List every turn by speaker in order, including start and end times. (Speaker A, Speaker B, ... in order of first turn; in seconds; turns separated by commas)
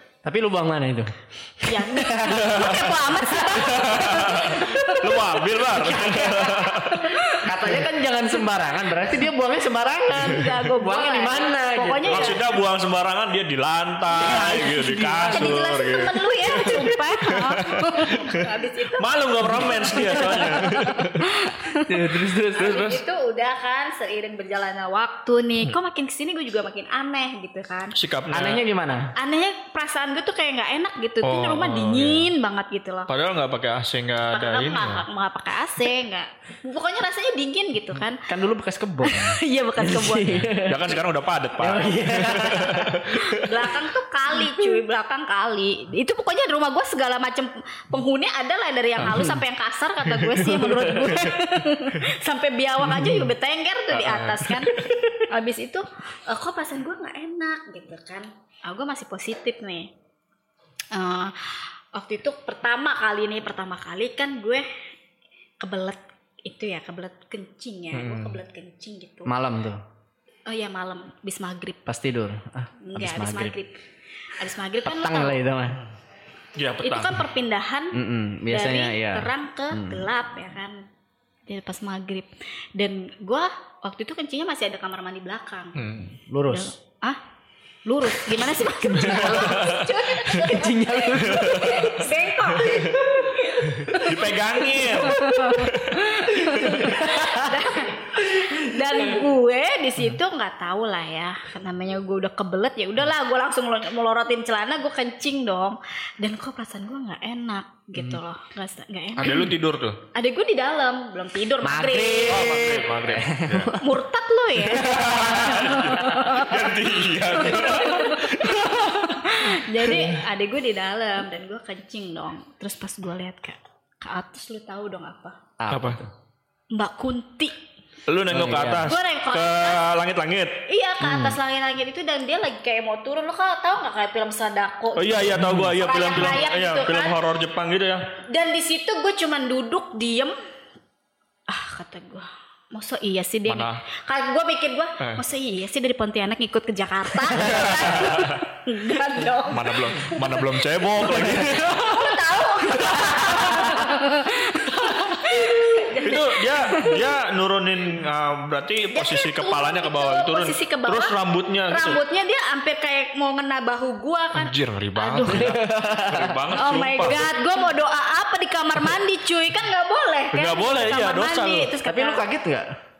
Speaker A: 0.2-2.9, Speaker B: 1.6-5.5, Speaker C: 2.3-7.2, Speaker A: 3.5-4.4, Speaker A: 5.7-6.5, Speaker B: 6.0-7.8, Speaker A: 7.4-12.4, Speaker B: 10.1-12.4, Speaker C: 12.1-21.4, Speaker A: 14.1-15.6, Speaker B: 15.3-21.9, Speaker A: 21.8-22.8, Speaker B: 22.5-28.0, Speaker C: 22.6-23.0, Speaker C: 27.9-28.6, Speaker A: 28.3-29.1, Speaker B: 29.1-33.1, Speaker C: 31.2-32.3, Speaker C: 33.1-35.0, Speaker B: 34.3-38.2, Speaker A: 38.3-40.9, Speaker B: 39.0-40.5, Speaker C: 40.5-43.4, Speaker A: 41.6-43.2, Speaker B: 43.1-59.9, Speaker A: 49.0-49.4, Speaker C: 50.4-51.3, Speaker C: 53.9-55.0, Speaker B: 60.9-64.7, Speaker B: 65.6-69.3, Speaker C: 67.9-68.4, Speaker A: 69.2-69.8, Speaker B: 70.5-71.8, Speaker A: 71.8-73.5, Speaker B: 72.8-73.8, Speaker B: 74.3-75.4, Speaker A: 74.8-75.8, Speaker C: 76.5-77.3, Speaker B: 76.8-80.8, Speaker A: 77.9-80.1, Speaker B: 81.5-85.8, Speaker C: 85.8-86.1, Speaker A: 86.2-86.7, Speaker B: 86.5-87.2, Speaker B: 87.8-109.5, Speaker A: 88.8-89.7, Speaker C: 89.2-90.1, Speaker A: 90.2-94.0, Speaker C: 91.2-91.8, Speaker C: 92.7-93.0, Speaker C: 93.6-96.8, Speaker A: 95.0-95.7, Speaker A: 96.3-97.7, Speaker A: 98.3-99.0, Speaker C: 109.2-110.0, Speaker B: 110.1-112.5, Speaker A: 111.6-113.8, Speaker C: 112.3-113.8, Speaker B: 113.8-116.7, Speaker C: 114.7-119.3, Speaker B: 117.2-125.4, Speaker A: 125.6-126.1, Speaker C: 125.7-126.0, Speaker B: 126.7-127.5, Speaker C: 128.1-130.6, Speaker A: 128.3-128.9, Speaker B: 128.8-129.8, Speaker B: 130.7-137.2, Speaker A: 131.0-131.3, Speaker C: 134.9-138.1, Speaker B: 138.2-140.3, Speaker B: 141.5-150.4, Speaker C: 143.5-143.8, Speaker C: 147.3-148.4, Speaker C: 149.5-152.2, Speaker A: 151.1-151.7, Speaker B: 151.7-157.1, Speaker C: 152.8-153.8, Speaker A: 153.4-153.8, Speaker A: 154.8-155.4, Speaker C: 156.0-162.0, Speaker B: 158.9-161.2, Speaker B: 161.7-165.6, Speaker C: 164.3-167.2, Speaker A: 165.3-166.4, Speaker B: 166.5-172.2, Speaker C: 170.3-171.7, Speaker A: 171.8-172.7